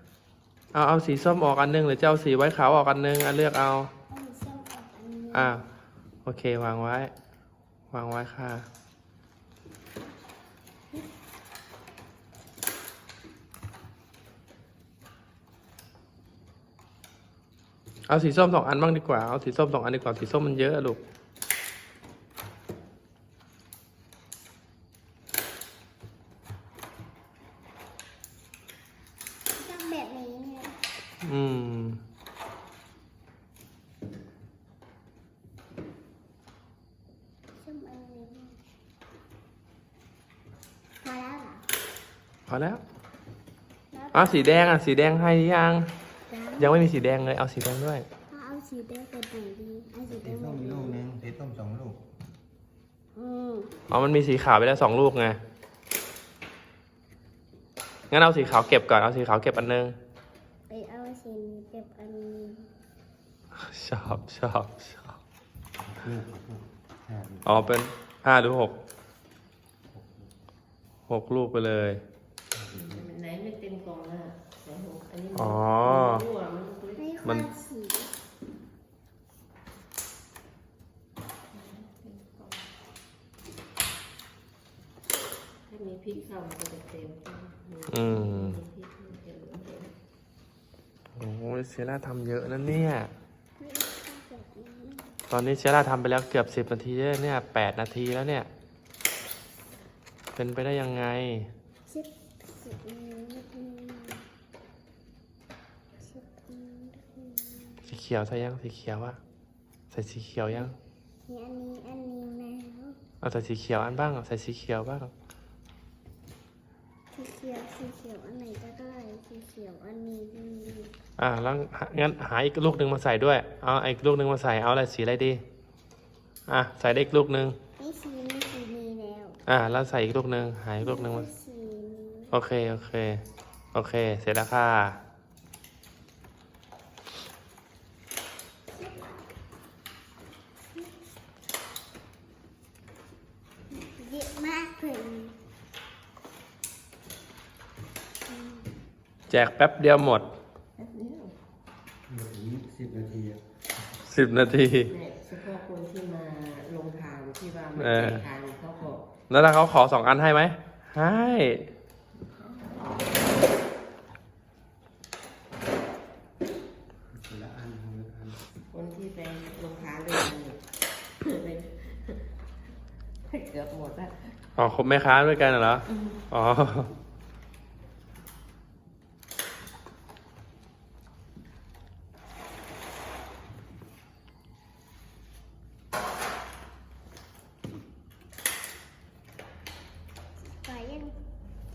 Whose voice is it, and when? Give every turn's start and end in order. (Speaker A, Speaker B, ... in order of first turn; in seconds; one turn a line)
Speaker A: 0.7-3.9
Speaker B: 4.1-5.5
Speaker A: 5.3-5.6
Speaker A: 6.2-7.1
Speaker A: 7.9-8.7
Speaker A: 18.1-21.0
Speaker B: 29.6-30.8
Speaker A: 31.2-32.0
Speaker B: 37.5-38.6
Speaker B: 41.0-41.7
Speaker A: 42.5-42.8
Speaker B: 43.9-44.6
Speaker A: 44.1-45.9
Speaker B: 46.3-46.9
Speaker A: 46.6-48.0
Speaker B: 48.3-51.0
Speaker C: 50.1-52.0
Speaker B: 53.1-53.7
Speaker A: 53.9-55.4
Speaker A: 58.1-59.9
Speaker B: 60.7-62.7
Speaker A: 63.6-65.1
Speaker C: 65.8-67.6
Speaker A: 67.4-68.7
Speaker C: 69.9-70.3
Speaker A: 71.1-72.0
Speaker C: 72.5-73.0
Speaker D: 72.8-77.2
Speaker A: 75.3-76.2
Speaker B: 77.0-78.1
Speaker A: 77.2-77.5
Speaker D: 81.5-82.6
Speaker D: 85.7-89.9
Speaker A: 87.9-88.6
Speaker A: 91.2-93.1
Speaker B: 93.6-95.2
Speaker A: 95.3-98.5
Speaker A: 100.3-101.5
Speaker B: 101.9-104.2
Speaker B: 106.0-107.8
Speaker A: 107.8-109.2
Speaker A: 109.9-110.7
Speaker B: 111.2-113.0
Speaker A: 113.2-115.1
Speaker B: 117.1-120.9
Speaker A: 121.2-125.4
Speaker A: 126.5-127.6
Speaker B: 127.8-129.4
Speaker A: 129.5-131.3
Speaker B: 130.8-132.3
Speaker A: 132.3-133.2
Speaker A: 133.7-135.0
Speaker B: 138.7-139.2
Speaker B: 143.8-145.4
Speaker B: 148.3-148.7
Speaker A: 149.3-150.3
Speaker D: 150.8-151.3
Speaker C: 152.1-153.4
Speaker A: 154.1-154.9
Speaker D: 154.9-159.1
Speaker A: 157.8-158.2
Speaker A: 159.3-161.7
Speaker D: 162.3-162.7
Speaker C: 167.1-168.4
Speaker D: 168.7-170.6
Speaker D: 171.2-172.3
Speaker D: 173.3-174.3
Speaker A: 174.6-176.9
Speaker D: 175.9-176.2
Speaker B: 190.4-191.1